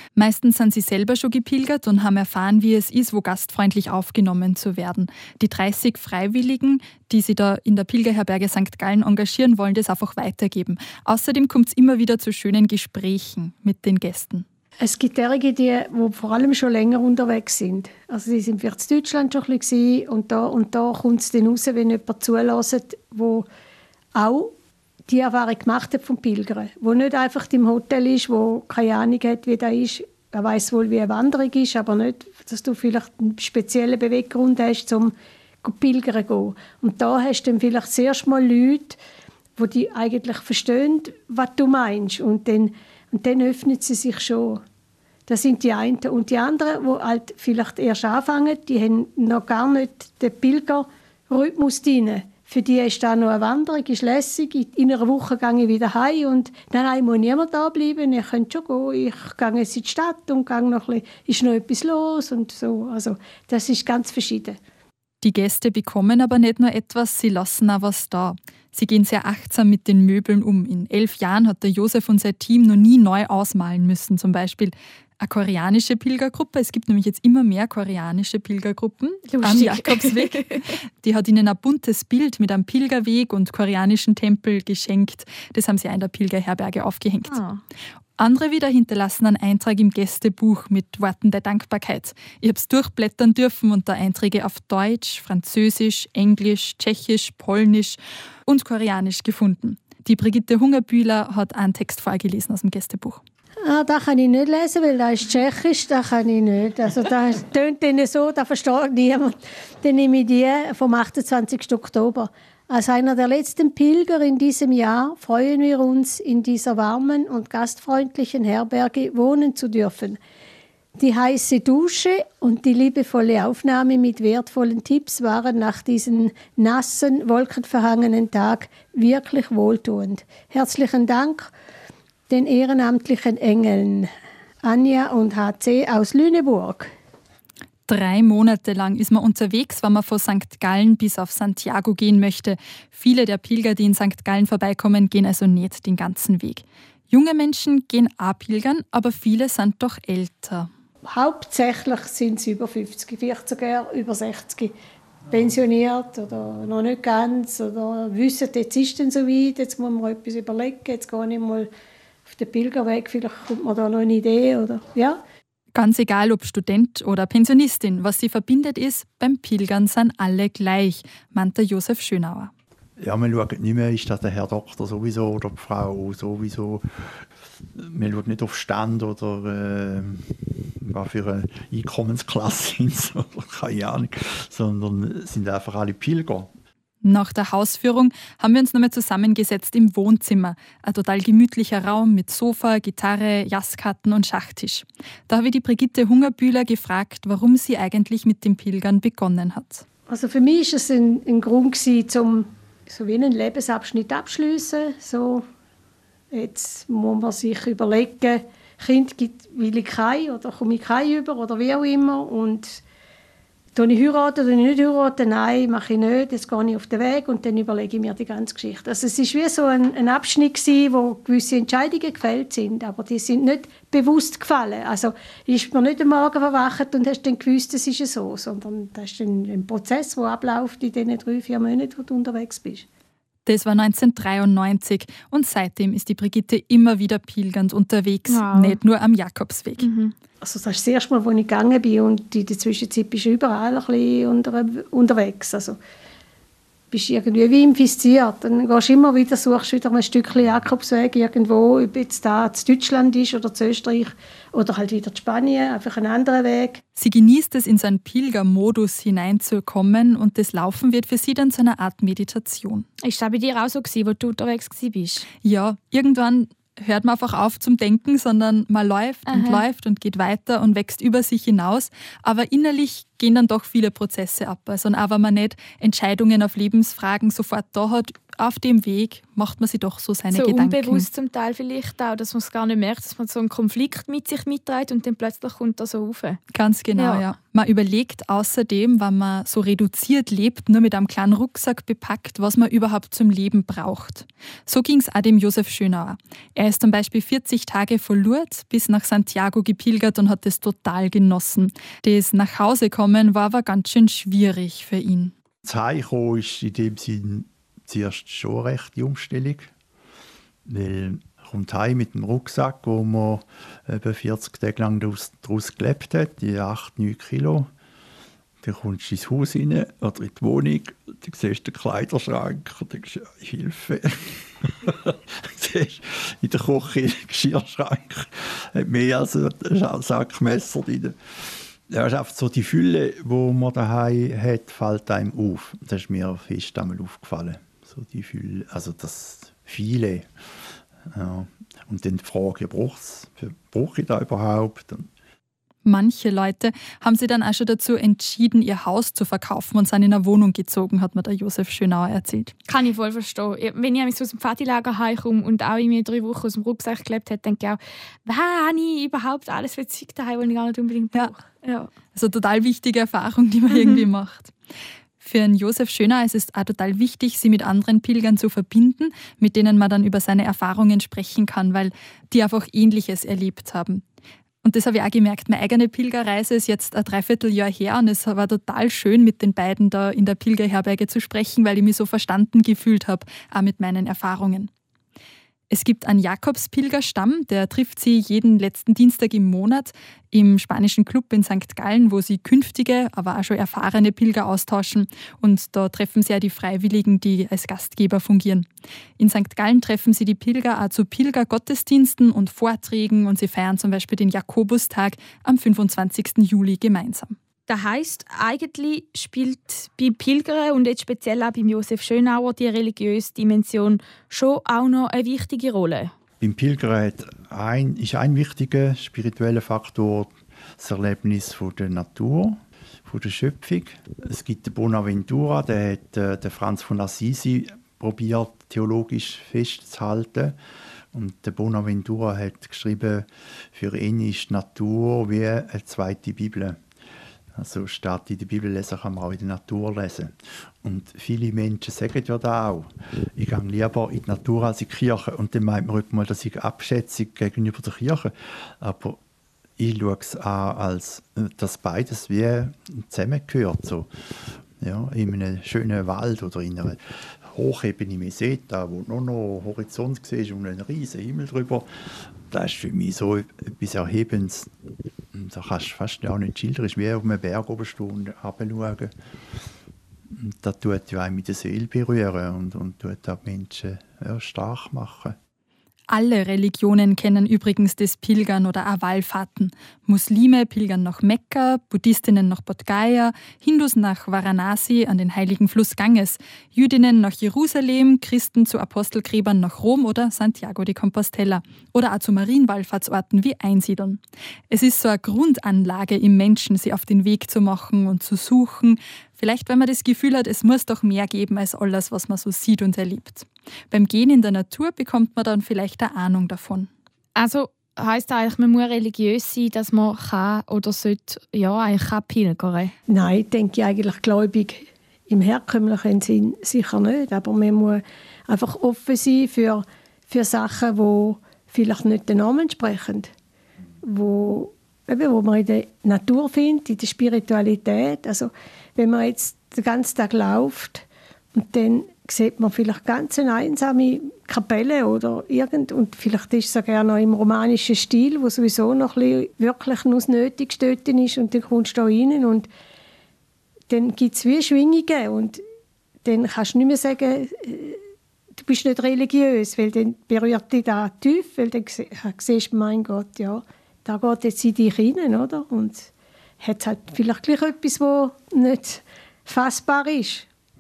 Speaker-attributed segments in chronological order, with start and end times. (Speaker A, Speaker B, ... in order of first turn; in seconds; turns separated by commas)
Speaker A: 0.2-14.4, Speaker B: 14.8-23.5, Speaker B: 24.1-24.5, Speaker B: 25.1-39.0, Speaker B: 39.6-44.6, Speaker B: 45.3-64.6, Speaker A: 65.2-87.4, Speaker C: 79.3-80.7, Speaker C: 87.3-87.6, Speaker A: 88.2-103.2, Speaker B: 103.6-120.2, Speaker B: 121.0-131.5, Speaker B: 132.3-134.1, Speaker B: 134.6-136.9, Speaker A: 137.9-150.7, Speaker B: 151.1-154.7, Speaker B: 155.3-161.7, Speaker B: 162.3-165.2, Speaker A: 165.7-172.5, Speaker D: 173.0-177.2, Speaker D: 177.8-186.5, Speaker A: 187.0-199.8, Speaker B: 200.1-205.4, Speaker B: 206.3-212.8, Speaker B: 213.8-232.9, Speaker A: 233.5-239.9, Speaker C: 238.3-238.8, Speaker C: 239.8-240.1, Speaker B: 240.4-245.8, Speaker B: 246.9-256.8, Speaker A: 257.0-262.9, Speaker C: 263.0-265.3, Speaker A: 265.4-281.1, Speaker C: 269.3-269.6, Speaker C: 280.3-286.4, Speaker A: 286.5-305.3, Speaker C: 287.0-287.3, Speaker D: 305.6-309.7, Speaker D: 310.6-317.7, Speaker D: 318.6-340.3, Speaker D: 341.1-345.1, Speaker A: 345.9-352.5, Speaker C: 352.7-361.9, Speaker A: 362.1-364.5, Speaker C: 363.7-364.1, Speaker A: 365.2-374.0, Speaker A: 374.6-384.7, Speaker A: 385.7-398.7, Speaker A: 399.2-407.4, Speaker C: 407.7-416.1, Speaker D: 416.4-430.6, Speaker D: 431.1-436.8, Speaker D: 437.6-449.2, Speaker D: 449.8-454.1, Speaker D: 454.8-464.7, Speaker D: 465.3-469.1, Speaker D: 470.3-475.4, Speaker A: 476.1-506.9, Speaker C: 507.4-512.9, Speaker B: 513.1-523.3, Speaker B: 524.0-542.7, Speaker B: 543.9-545.6, Speaker B: 546.2-548.0, Speaker B: 548.6-556.1, Speaker B: 556.6-560.5